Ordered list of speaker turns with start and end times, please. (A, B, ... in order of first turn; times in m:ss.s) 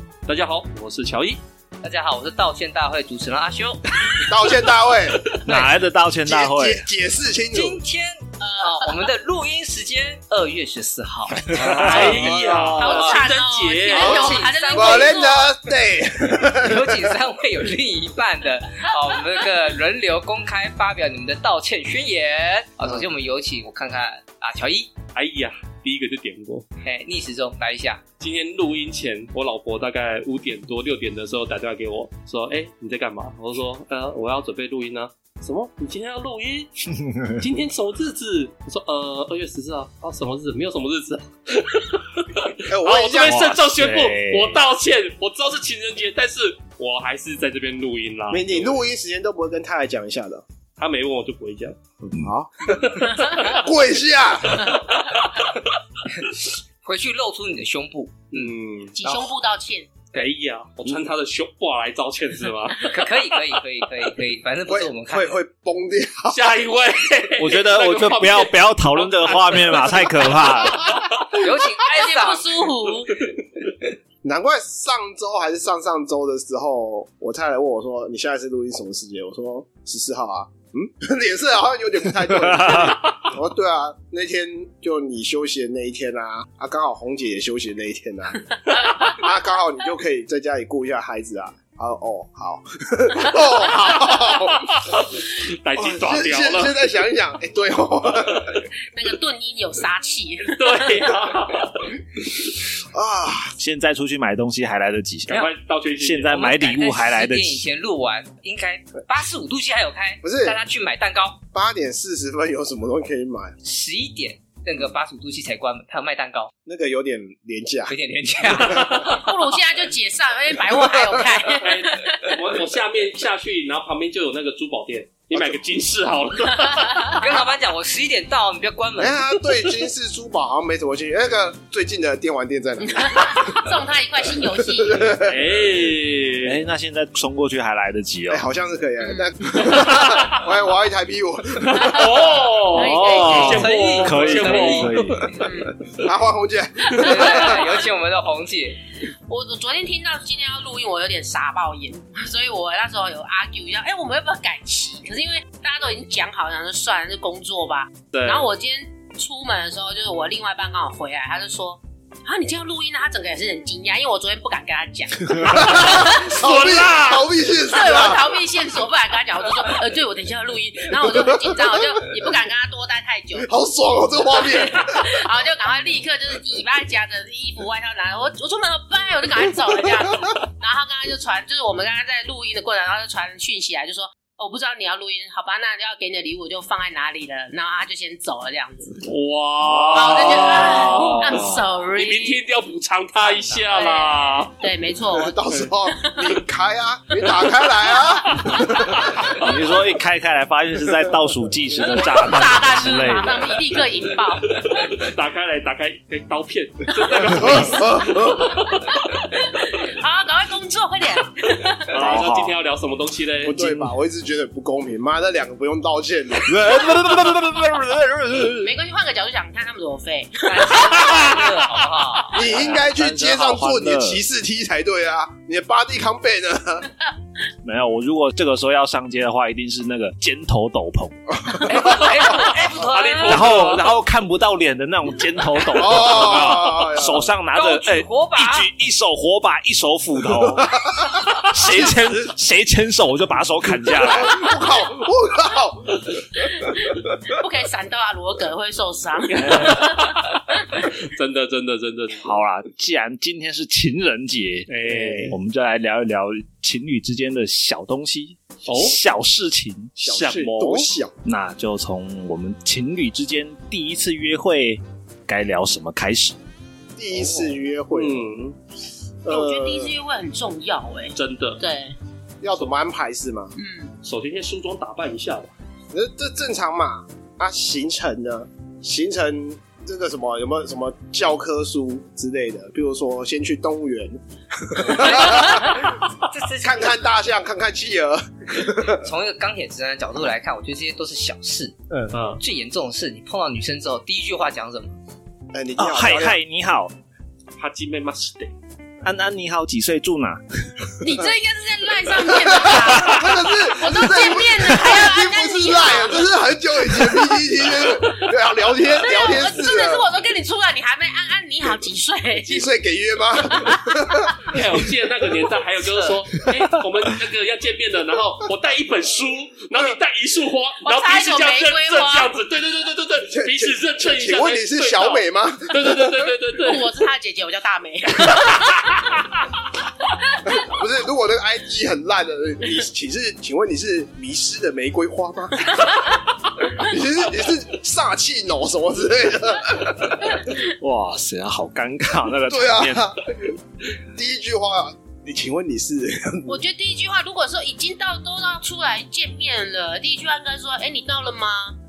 0:00.3-0:01.4 A
0:01.8-0:03.8 B
0:04.2-0:05.2 C
0:05.5-0:06.8 D
0:05.5-0:05.7 B
0:06.2-0:07.8 C
0:07.5-0:12.2 B
0:08.4-0:09.0 E
0:11.4-0:12.1 D
0:11.5-0:12.8 C
0:11.7-0:14.4 A
0:11.9-0:15.6 E
0:12.8-0:13.2 B
0:13.9-0:15.4 B
0:13.9-0:17.2 C
0:16.4-0:24.9 B
0:25.2-0:26.7 A
0:26.8-0:28.0 B
0:28.2-0:36.9 A
0:37.0-0:37.4 D
0:37.4-0:48.8 A
0:42.7-0:43.4 C
0:43.2-0:44.6 D
0:48.3-0:50.4 C
0:50.8-0:51.8 A
0:52.1-0:54.9 C
0:52.7-0:53.5 A
0:54.6-0:55.6 A
0:56.2-0:58.5 B
0:58.3-0:59.0 C
0:59.0-0:59.9 E
1:00.1-1:03.6 A
1:02.8-1:05.3 B
1:04.7-1:06.5 C
1:06.3-1:11.2 A
1:07.4-1:11.1 D
1:11.3-1:12.7 B
1:11.3-1:13.3 E
1:14.2-1:34.9 C
1:22.6-1:23.0 D
1:28.7-1:29.2 E
1:34.1-1:36.8 A
1:35.8-1:38.6 C
1:38.9-1:41.1 E
1:40.4-1:42.0 A
1:42.6-1:43.6 C
1:43.6-1:45.5 D
1:45.3-1:46.5 A
1:46.0-1:47.7 D
1:46.2-1:51.4 B
1:50.2-1:50.6 C
1:51.5-1:53.6 C
1:53.6-1:56.5 B
1:56.6-1:57.9 C
1:57.9-1:59.3 B
1:58.6-1:59.0 C
1:58.9-2:02.3 E
2:00.7-2:01.2 C
2:01.6-2:07.2 A
2:05.3-2:05.6 C
2:06.6-2:07.2 E
2:07.1-2:09.3 B
2:09.0-2:13.6 C
2:12.8-2:15.3 E
2:14.6-2:15.5 C
2:15.2-2:16.6 A
2:16.4-2:18.5 D
2:18.3-2:22.4 C
2:19.0-2:19.3 E
2:19.6-2:20.5 A
2:21.6-2:25.0 A
2:22.7-2:24.0 E
2:22.8-2:25.3 D
2:23.4-2:25.2 B
2:25.3-2:25.8 E
2:25.9-2:27.6 C
2:26.9-2:27.7 E
2:27.0-2:28.8 B
2:29.3-2:46.5 E
2:38.1-2:38.5 A
2:45.3-2:48.3 C
2:45.6-2:47.3 A
2:47.6-2:53.5 E
2:51.0-2:52.0 C
2:53.4-2:55.2 C
2:54.3-3:09.1 E
3:09.0-3:14.5 A
3:09.8-3:10.8 C
3:09.9-3:12.4 E
3:10.1-3:11.6 D
3:13.2-3:16.4 E
3:15.1-3:19.3 C
3:17.8-3:18.8 E
3:18.5-3:19.5 A
3:19.3-3:23.6 D
3:21.9-3:24.6 E
3:24.5-3:29.2 A
3:27.3-3:28.6 C
3:28.1-3:32.3 E
3:31.9-3:33.6 A
3:31.9-3:32.5 D
3:33.4-3:36.7 C
3:33.5-3:33.9 D
3:36.4-3:38.7 D
3:38.6-3:41.8 E
3:40.7-3:41.2 D
3:41.0-3:42.4 B
3:42.3-3:46.9 C
3:42.4-3:44.2 D
3:47.6-3:51.7 D
3:51.4-3:51.7 C
3:51.6-3:53.8 B
3:52.0-3:53.9 A
3:53.3-4:04.5 D
3:55.8-3:57.3 C
3:57.5-3:58.7 B
4:00.3-4:02.3 C
4:04.0-4:06.9 C
4:06.4-4:10.9 E
4:10.8-4:12.3 A
4:12.1-4:14.7 D
4:14.7-4:15.3 A
4:14.9-4:15.3 C
4:15.3-4:26.4 D
4:18.7-4:19.0 A
4:20.0-4:20.5 A
4:20.0-4:21.1 C
4:27.0-4:28.2 C
4:27.4-4:28.6 A
4:29.2-4:30.0 C
4:29.3-4:32.0 E
4:31.2-4:31.6 A
4:32.4-4:33.5 C
4:33.6-4:33.9 E
4:34.0-4:35.5 A
4:35.9-4:46.0 C
4:45.0-4:45.6 B
4:46.3-4:47.0 B
4:46.6-4:49.1 C
4:48.9-4:51.8 B
4:52.1-4:52.4 A
4:52.4-4:55.0 B
4:55.5-4:56.4 C
4:55.8-4:56.9 D
4:57.6-4:58.5 A
4:59.0-5:00.9 D
5:01.0-5:06.3 E
5:02.4-5:10.1 C
5:02.7-5:03.3 D
5:06.9-5:07.3 E
5:09.0-5:12.7 E
5:12.4-5:14.7 C
5:13.4-5:14.6 E
5:14.5-5:26.9 A
5:20.8-5:22.4 E
5:23.3-5:26.3 C
5:26.6-5:29.2 E
5:30.3-5:30.7 E
5:30.5-5:36.0 C
5:35.8-5:36.2 E
5:36.7-5:40.4 C
5:40.8-5:43.0 D
5:42.5-5:46.6 C
5:46.5-5:51.8 E